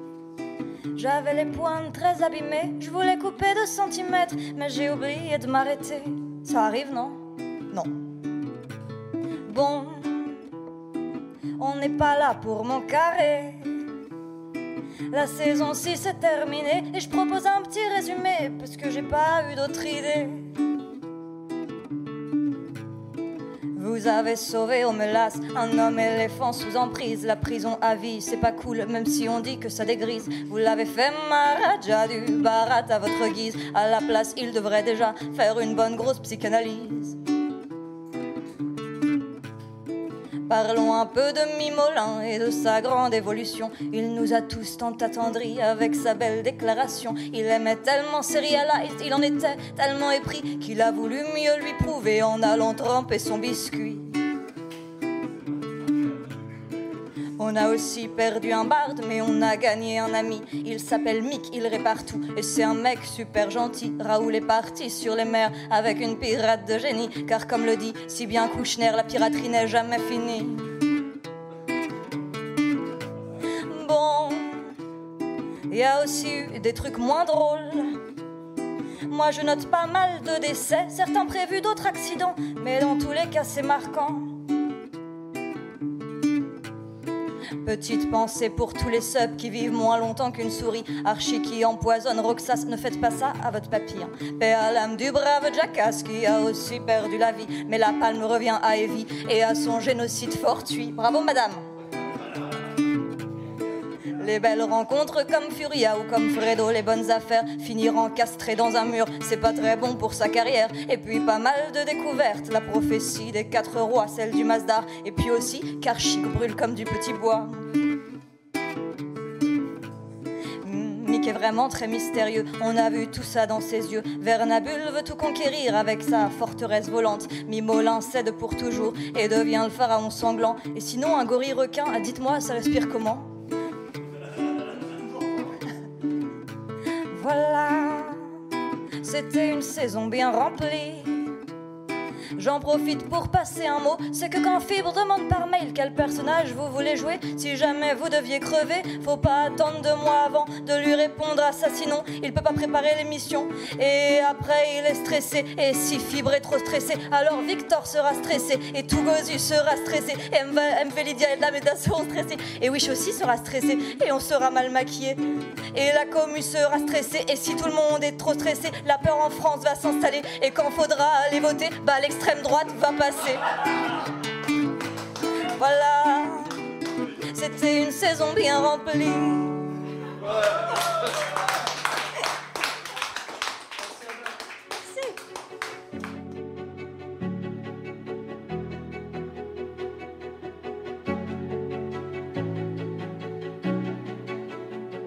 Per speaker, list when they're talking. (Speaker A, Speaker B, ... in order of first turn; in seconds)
Speaker A: 0.9-8.0, 9.5-10.4, 11.6-13.7, 15.1-20.5, 23.8-37.2, 40.5-54.1, 57.4-70.7, 73.7-74.7, 75.7-78.0, 79.1-84.4, 87.6-101.6, 104.2-117.7, 120.6-133.3, 137.1-138.3, 139.0-141.3, 142.4-165.2, 165.7-173.5, 175.6-176.5, 177.3-179.7